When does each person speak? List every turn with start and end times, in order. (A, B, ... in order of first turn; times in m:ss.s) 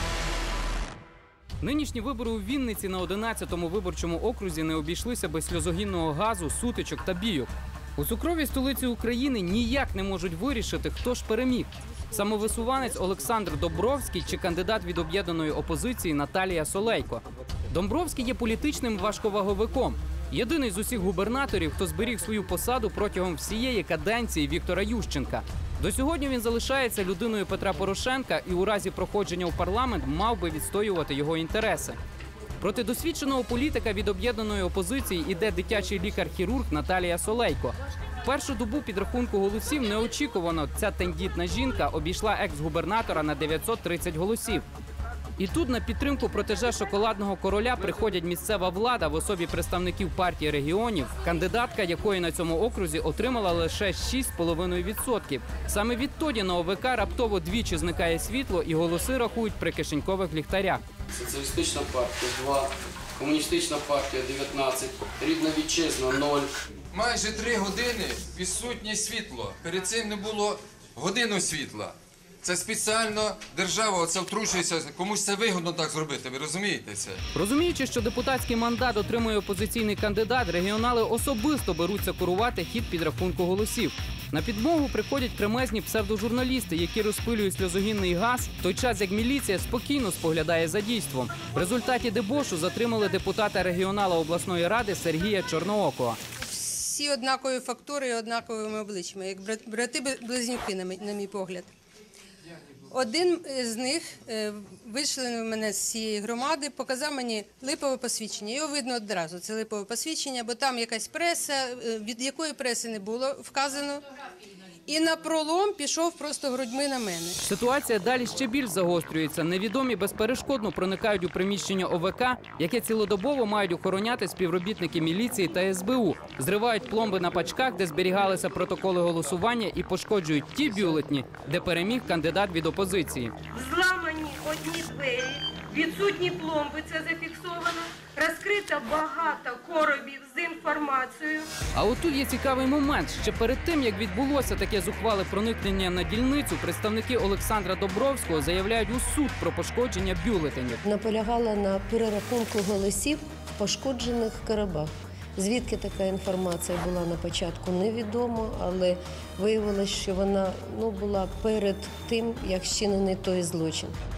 0:01.6-0:32.0 A
0:32.6-0:44.7 A
0:45.4-1:00.8 A
1:01.1-1:06.5 B
1:06.9-1:17.2 C
1:17.3-1:36.2 A
1:36.5-1:41.7 D
1:42.9-1:54.0 D
1:54.9-1:57.4 D
1:57.4-2:13.4 A
2:13.5-2:21.5 E
2:21.8-2:30.8 A
2:30.8-2:44.0 F